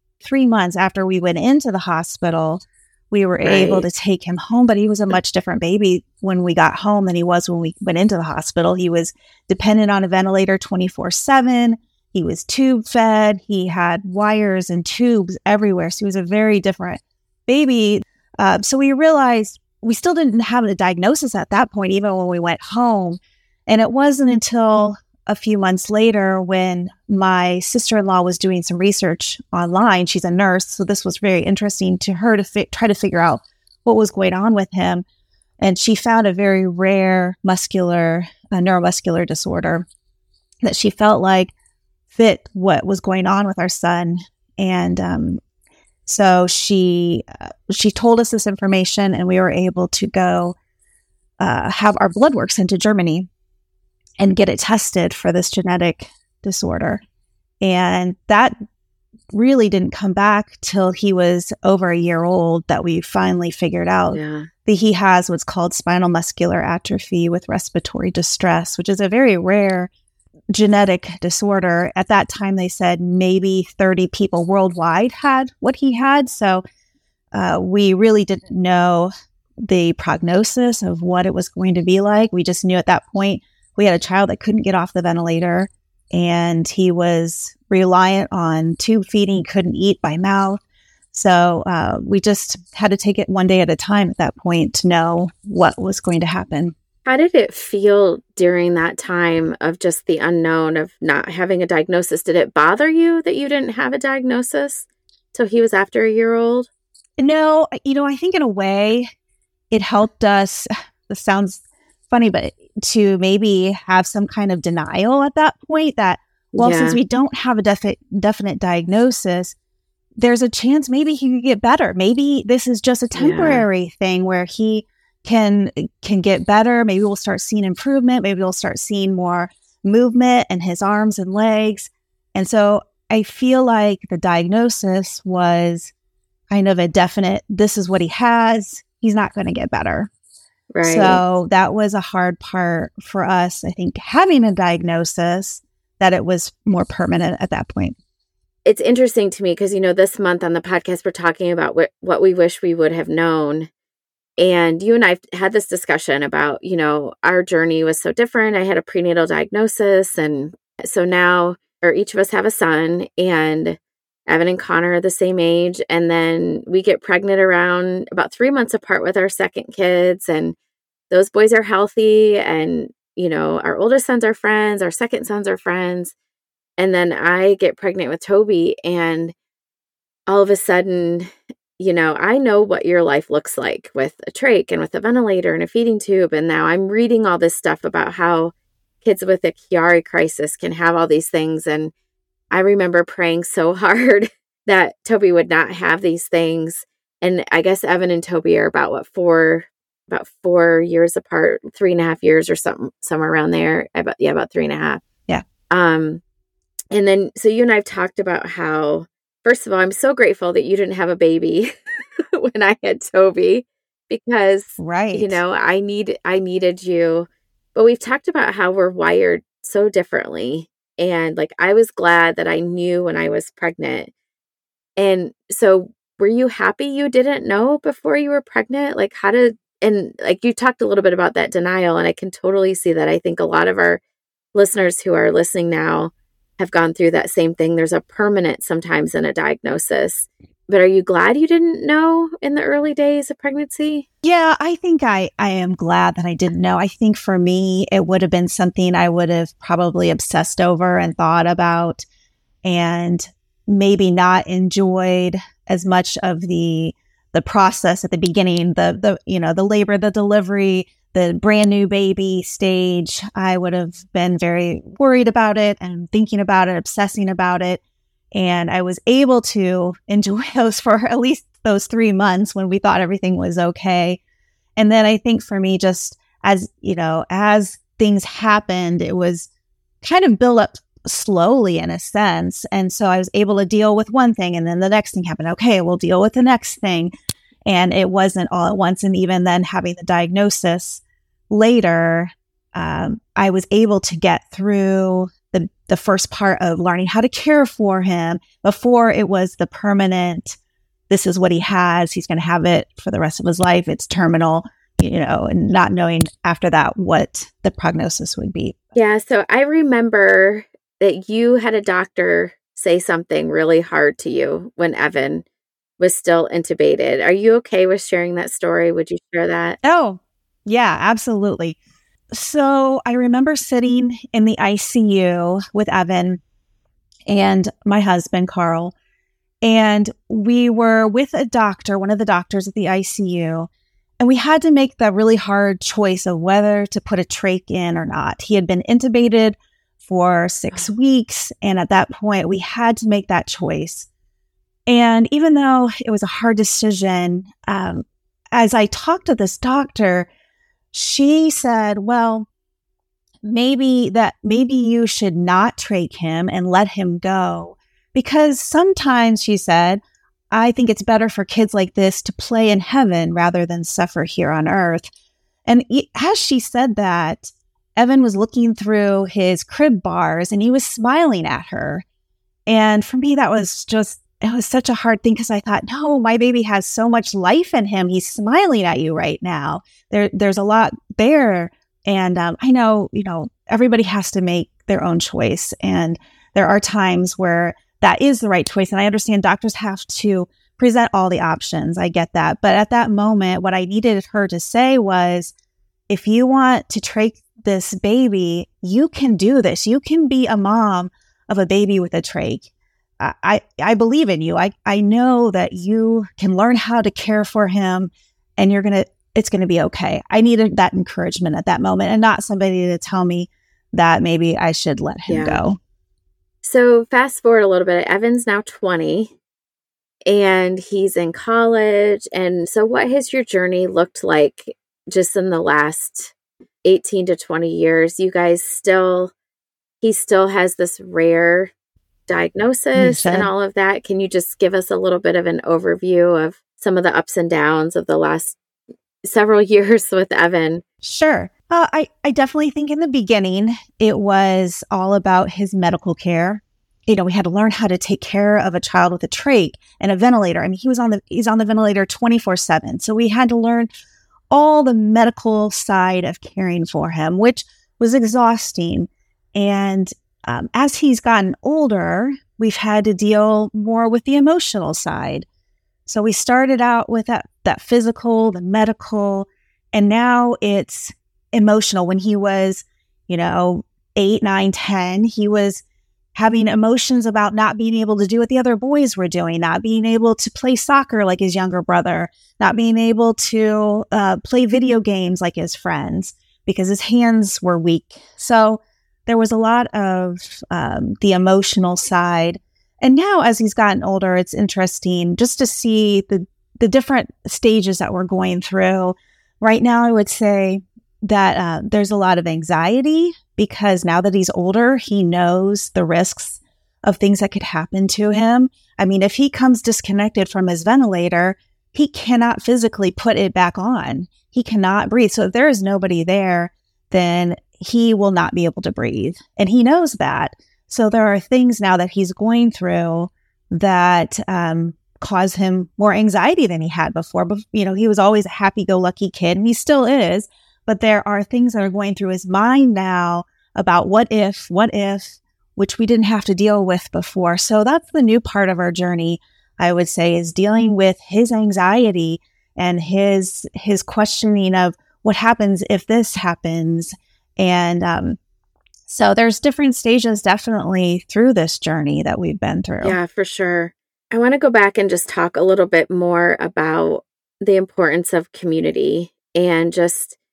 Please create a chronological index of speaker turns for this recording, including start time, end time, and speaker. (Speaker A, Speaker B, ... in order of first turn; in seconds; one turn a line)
Speaker A: 0.2-35.0
Speaker B: 3.4-3.9
Speaker A: 35.6-39.9
Speaker A: 40.6-41.5
Speaker A: 42.1-45.4
Speaker A: 46.0-50.5
Speaker A: 51.4-53.3
Speaker A: 54.2-57.0
Speaker A: 57.6-58.5
Speaker A: 59.3-69.9
Speaker B: 64.1-64.5
Speaker A: 70.5-76.6
Speaker A: 77.3-79.1
Speaker A: 79.6-90.6
Speaker A: 91.1-96.7
Speaker B: 97.0-106.7
Speaker A: 107.2-109.1
Speaker A: 109.7-119.5
Speaker B: 116.6-117.0
Speaker A: 120.2-135.9
Speaker B: 123.1-123.7
Speaker A: 136.5-140.1
Speaker B: 140.7-141.2
Speaker A: 140.8-147.9
Speaker B: 148.6-153.7
Speaker B: 154.4-170.6
Speaker B: 171.1-176.1
Speaker B: 176.8-179.3
Speaker B: 180.3-191.9
Speaker B: 192.5-205.0
Speaker B: 205.7-206.2
Speaker B: 206.9-224.1
Speaker A: 214.8-215.4
Speaker B: 225.0-234.0
Speaker B: 234.5-244.1
Speaker A: 244.2-252.0
Speaker A: 252.6-267.8
Speaker A: 268.3-274.2
Speaker A: 274.8-279.5
Speaker A: 280.0-287.1
Speaker A: 287.6-300.6
Speaker A: 301.1-308.8
Speaker B: 308.9-315.4
Speaker B: 316.0-319.8
Speaker A: 319.8-321.8
Speaker A: 322.3-326.4
Speaker A: 327.3-328.9
Speaker A: 329.6-333.7
Speaker A: 334.2-344.1
Speaker A: 344.9-350.3
Speaker A: 350.9-352.5
Speaker A: 353.4-365.1
Speaker A: 365.6-372.0
Speaker A: 372.7-395.5
Speaker A: 396.1-402.7
Speaker A: 403.2-415.8
Speaker B: 415.3-415.6
Speaker B: 416.6-419.3
Speaker B: 420.2-426.3
Speaker B: 426.8-429.3
Speaker B: 430.0-431.7
Speaker B: 432.3-438.6
Speaker A: 432.9-433.5
Speaker B: 439.2-440.8
Speaker A: 441.0-453.9
Speaker A: 454.5-465.4
Speaker A: 466.1-475.8
Speaker A: 476.3-548.4
Speaker A: 549.1-553.2
Speaker B: 553.0-560.4